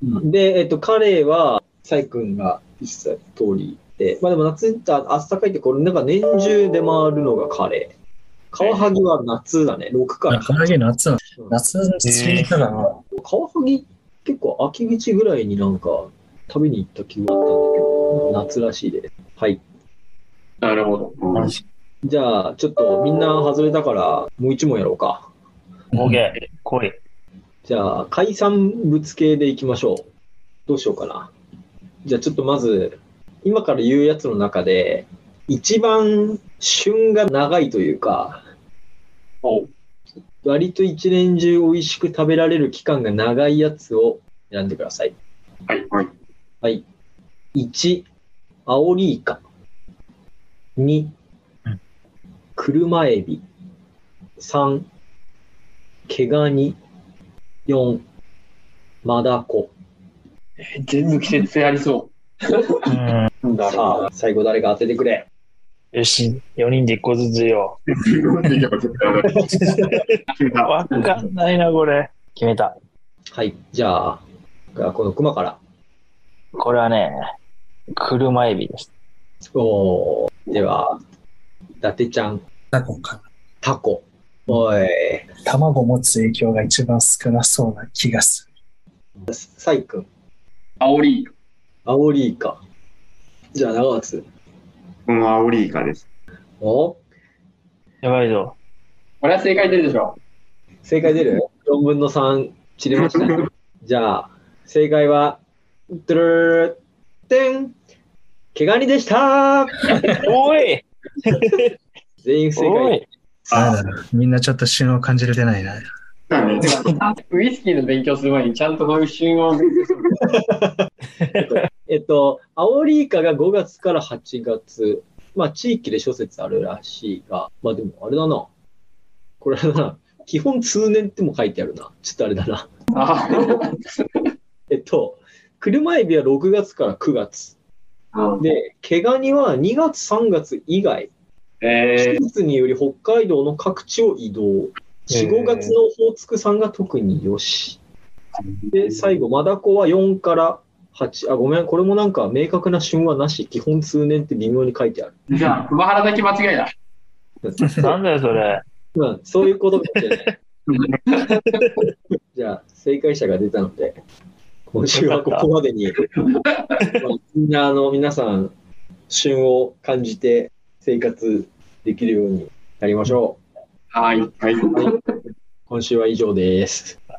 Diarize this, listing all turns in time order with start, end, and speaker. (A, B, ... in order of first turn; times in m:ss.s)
0:00.2-0:07.9 A
0:08.5-0:10.7 A
0:08.6-0:08.9 B
0:10.3-0:12.9 C
0:12.0-0:12.6 D
0:13.2-0:19.6 A
0:20.6-0:21.2 B
0:21.2-0:21.5 E
0:22.0-0:25.3 A
0:25.9-0:27.0 D
0:27.6-0:30.0 A
0:30.7-0:31.3 A
0:32.0-0:38.4 A
0:39.4-0:39.7 B
0:40.4-0:45.1 A
0:47.5-0:48.0 A
0:48.7-0:49.4 A
0:50.8-0:51.1 A
0:52.6-0:53.4 A
0:54.4-0:54.8 A
0:56.1-0:56.8 A
0:57.6-0:58.0 A
0:59.0-0:59.7 A
1:00.6-1:02.1 B
1:02.9-1:03.3 D
1:03.4-1:04.1 B
1:03.7-1:05.3 A
1:05.9-1:07.8 D
1:07.9-1:09.5 E
1:09.5-1:09.8 A
1:09.7-1:12.8 D
1:10.4-1:11.1 E
1:13.3-1:14.2 A
1:14.7-1:15.6 A
1:16.6-1:17.1 D
1:18.0-1:18.9 D
1:19.5-1:21.0 A
1:21.8-1:22.4 A
1:22.7-1:23.2 C
1:23.6-1:25.3 A
1:25.4-1:28.5 C
1:29.2-1:30.1 A
1:30.8-1:31.3 B
1:31.8-1:32.6 A
1:33.5-1:34.2 A
1:35.1-1:36.0 E
1:36.6-1:37.0 A
1:38.0-1:38.6 D
1:39.2-1:40.2 B
1:40.8-1:45.4 A
1:45.9-1:46.8 A
1:47.3-1:47.7 A
1:48.5-1:50.2 A
1:50.2-1:51.7 D
1:52.2-1:53.0 A
1:52.6-1:53.0 D
1:53.5-1:55.8 C
1:56.3-2:00.0 B
1:56.3-1:56.7 E
2:00.3-2:00.8 A
2:01.2-2:01.6 D
2:01.4-2:08.5 A
2:09.4-2:12.7 A
2:12.9-2:13.7 B
2:14.7-2:17.5 A
2:18.1-2:18.4 B
2:18.4-2:21.1 A
2:21.6-2:22.2 B
2:22.0-2:27.8 A
2:25.1-2:25.7 D
2:28.7-2:35.2 A
2:35.3-2:36.7 B
2:37.4-2:37.9 A
2:37.6-2:38.6 D
2:38.9-2:40.3 A
2:41.1-2:41.6 B
2:42.3-2:44.0 A
2:44.7-2:46.0 A
2:44.9-2:45.5 D
2:46.2-2:47.0 B
2:47.0-2:48.5 A
2:49.1-2:53.4 A
2:53.9-2:54.9 B
2:54.4-2:54.7 E
2:55.7-2:57.0 A